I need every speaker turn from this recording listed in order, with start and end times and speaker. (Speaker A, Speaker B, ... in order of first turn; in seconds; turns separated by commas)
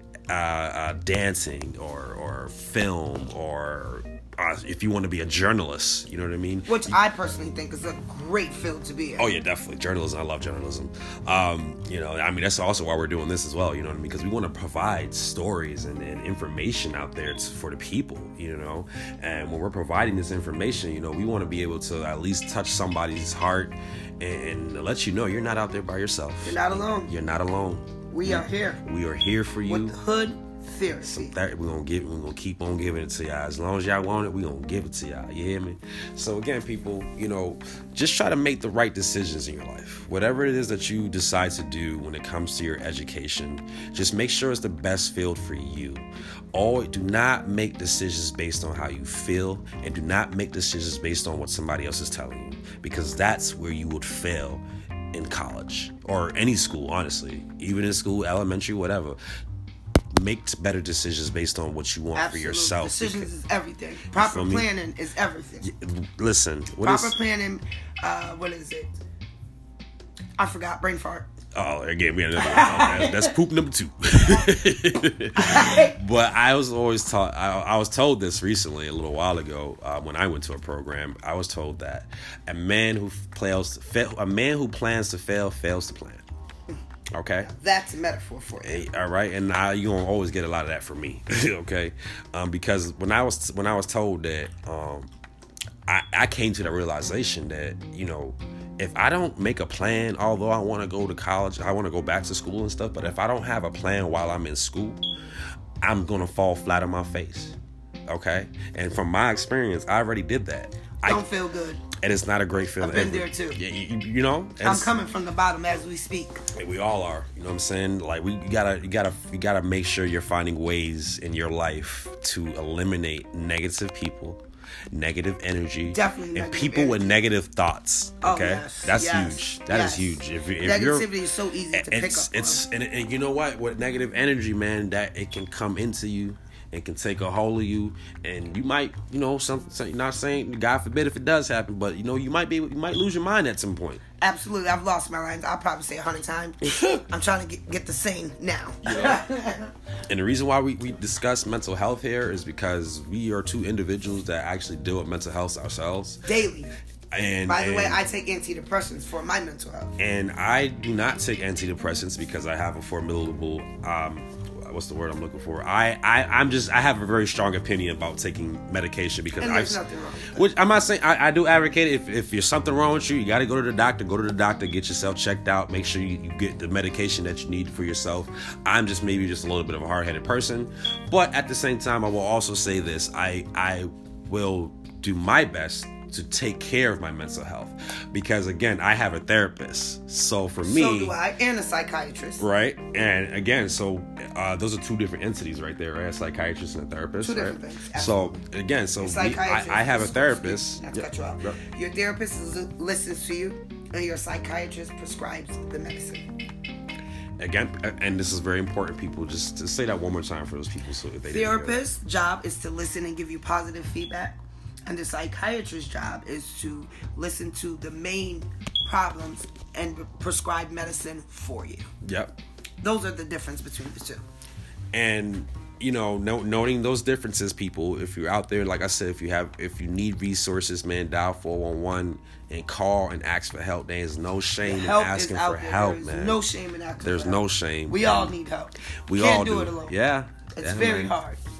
Speaker A: 0.3-7.0, Speaker B: 6.7-9.3, Speaker A: 9.2-30.0, Speaker B: 26.4-27.1, Speaker B: 28.1-28.8, Speaker B: 29.7-31.3, Speaker A: 31.0-59.2, Speaker A: 60.1-63.3, Speaker B: 62.1-65.7, Speaker A: 64.1-64.7, Speaker A: 65.6-67.2, Speaker B: 66.8-69.0, Speaker B: 70.4-71.3, Speaker A: 71.5-86.2, Speaker B: 72.4-73.3, Speaker B: 75.4-76.0, Speaker A: 87.1-87.5, Speaker B: 87.4-88.8, Speaker A: 88.6-95.1, Speaker A: 95.9-105.0, Speaker A: 105.8-107.6, Speaker A: 108.1-111.3, Speaker B: 111.0-111.8, Speaker A: 111.9-115.0, Speaker B: 112.8-113.6, Speaker B: 114.6-116.5, Speaker A: 116.5-131.2, Speaker B: 125.9-127.1, Speaker B: 128.2-132.6, Speaker A: 131.7-144.0, Speaker B: 144.2-149.7, Speaker A: 148.8-149.3, Speaker A: 150.1-156.2, Speaker B: 156.3-156.7, Speaker A: 157.1-158.0, Speaker B: 157.5-159.9, Speaker A: 160.0-169.8, Speaker B: 169.4-170.5, Speaker A: 170.3-191.2, Speaker B: 190.6-192.5, Speaker A: 192.4-201.6, Speaker B: 197.2-198.4, Speaker B: 199.0-206.3, Speaker A: 207.4-211.8, Speaker B: 211.3-221.9, Speaker A: 222.0-222.3, Speaker B: 222.8-224.2, Speaker A: 224.9-236.4, Speaker B: 234.6-239.9, Speaker A: 237.0-238.4, Speaker A: 239.1-241.2, Speaker B: 240.6-241.4